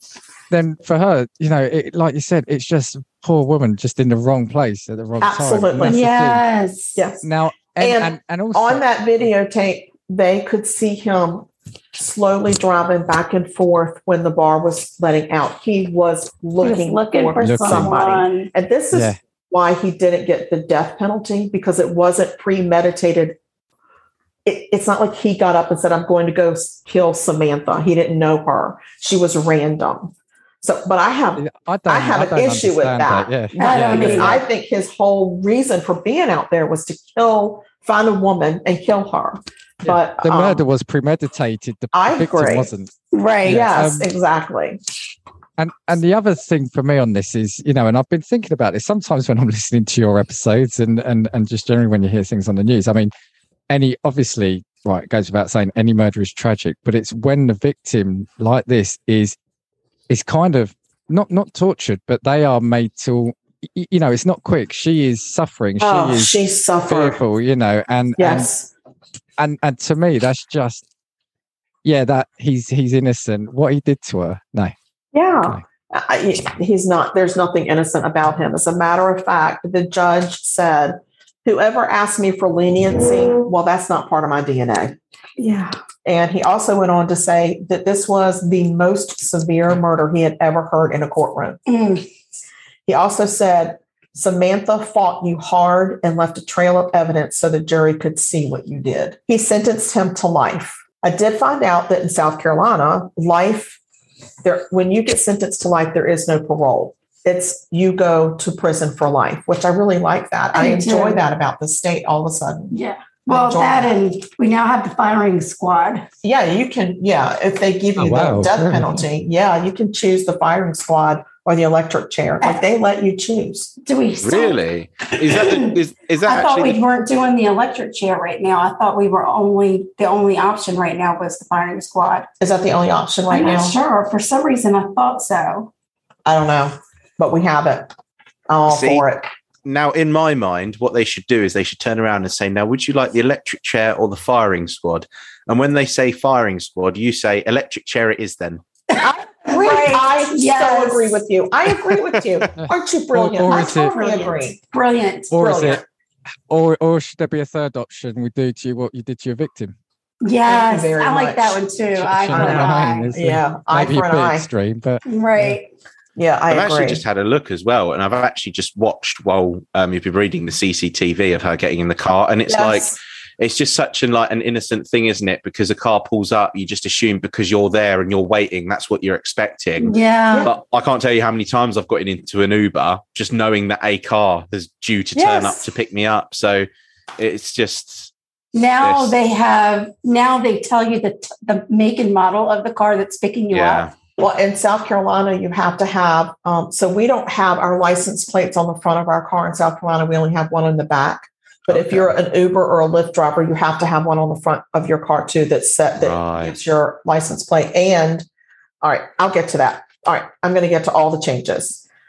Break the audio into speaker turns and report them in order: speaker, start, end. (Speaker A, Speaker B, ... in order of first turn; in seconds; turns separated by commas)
Speaker A: 0.5-6.5, Speaker B: 5.2-6.1, Speaker C: 5.8-7.0, Speaker B: 7.0-7.2, Speaker A: 7.2-8.8, Speaker B: 7.8-23.4, Speaker C: 16.6-18.5, Speaker A: 17.4-18.0, Speaker A: 18.9-19.2, Speaker B: 24.4-40.6, Speaker A: 31.4-34.4, Speaker C: 33.6-34.4, Speaker A: 39.8-42.9, Speaker B: 41.9-42.7, Speaker C: 43.1-43.6, Speaker A: 43.5-44.1, Speaker B: 43.5-44.8, Speaker A: 45.6-53.1, Speaker A: 53.7-59.4, Speaker A: 60.1-68.5, Speaker B: 65.8-67.2, Speaker B: 68.2-68.7, Speaker A: 69.4-70.8, Speaker A: 71.8-74.8, Speaker B: 75.1-91.6, Speaker C: 91.7-92.1, Speaker B: 92.9-103.8, Speaker B: 104.4-112.8, Speaker C: 110.5-111.2, Speaker C: 112.7-116.1, Speaker B: 113.3-114.0, Speaker B: 116.2-123.8, Speaker A: 118.0-119.0, Speaker C: 122.4-122.7, Speaker C: 123.8-124.6, Speaker D: 124.2-126.8, Speaker C: 125.3-125.7, Speaker C: 126.2-132.3, Speaker B: 132.4-133.8, Speaker C: 133.3-135.7, Speaker B: 136.2-137.9, Speaker B: 138.5-139.3, Speaker D: 138.7-139.1, Speaker D: 139.7-148.6, Speaker C: 148.9-151.2, Speaker B: 149.0-154.6, Speaker D: 151.9-152.2, Speaker A: 152.6-153.9, Speaker C: 153.4-155.3, Speaker A: 155.3-155.8, Speaker B: 155.4-155.8, Speaker A: 156.5-159.8, Speaker C: 160.2-163.1, Speaker B: 160.4-161.6, Speaker A: 162.0-165.6, Speaker B: 162.3-164.5, Speaker C: 165.1-165.7, Speaker B: 166.2-167.0, Speaker D: 166.5-188.1, Speaker B: 172.5-173.0, Speaker C: 179.8-180.5, Speaker B: 185.2-185.7, Speaker C: 188.5-193.9, Speaker D: 188.8-189.2, Speaker D: 193.5-193.9, Speaker B: 194.2-208.3, Speaker D: 201.7-202.1, Speaker D: 206.0-206.6, Speaker B: 208.8-211.9